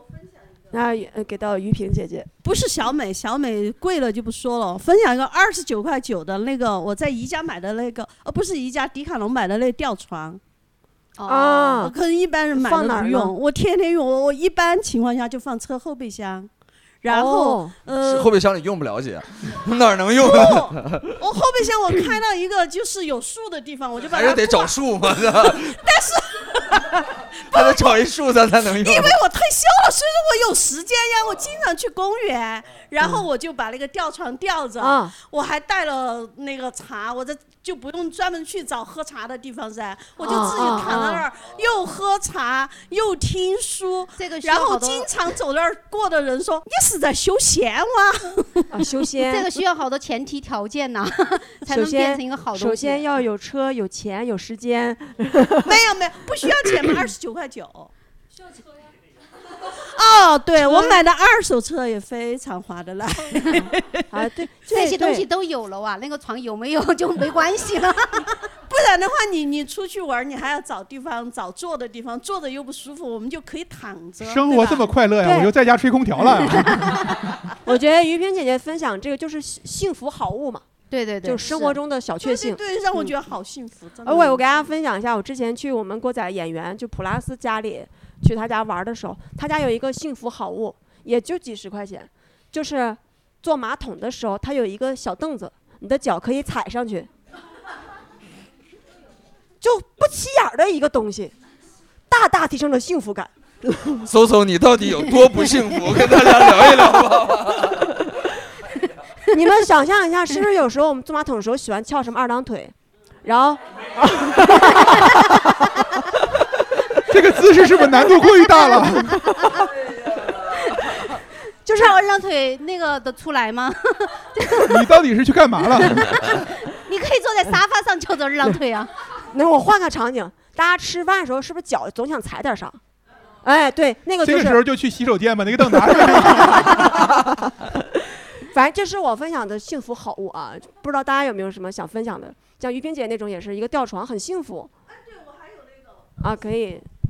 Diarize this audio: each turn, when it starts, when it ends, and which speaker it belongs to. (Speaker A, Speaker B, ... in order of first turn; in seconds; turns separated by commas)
Speaker A: 0.7-2.3, Speaker B: 2.4-10.4, Speaker C: 11.2-11.9, Speaker A: 11.3-11.9, Speaker B: 11.8-16.5, Speaker A: 12.5-13.3, Speaker B: 17.0-18.3, Speaker A: 17.1-17.7, Speaker D: 17.9-21.2, Speaker B: 20.2-28.0, Speaker D: 24.0-25.8, Speaker D: 27.5-29.2, Speaker B: 28.6-48.7, Speaker A: 34.8-35.1, Speaker A: 40.2-41.3, Speaker C: 40.2-41.0, Speaker C: 44.1-45.1, Speaker A: 48.7-49.6, Speaker C: 49.3-53.0, Speaker A: 51.6-55.8, Speaker B: 55.6-57.9, Speaker B: 59.6-64.0, Speaker A: 60.5-61.0, Speaker A: 63.6-65.2, Speaker C: 64.7-68.4, Speaker B: 68.7-74.9, Speaker E: 74.2-77.1, Speaker A: 75.2-75.5, Speaker C: 76.6-76.9, Speaker A: 77.6-80.7, Speaker C: 80.9-81.8, Speaker A: 81.2-82.6, Speaker B: 82.2-84.4, Speaker A: 84.0-97.1, Speaker A: 99.6-101.3, Speaker A: 102.1-104.1, Speaker D: 104.0-108.0, Speaker A: 109.3-115.7, Speaker E: 117.1-119.5, Speaker C: 118.2-119.7, Speaker C: 120.3-125.0, Speaker A: 121.7-121.9, Speaker E: 124.6-126.3, Speaker C: 125.8-128.9, Speaker A: 129.3-132.8, Speaker A: 133.4-134.6, Speaker E: 134.2-137.1, Speaker A: 135.9-144.7, Speaker A: 146.2-146.9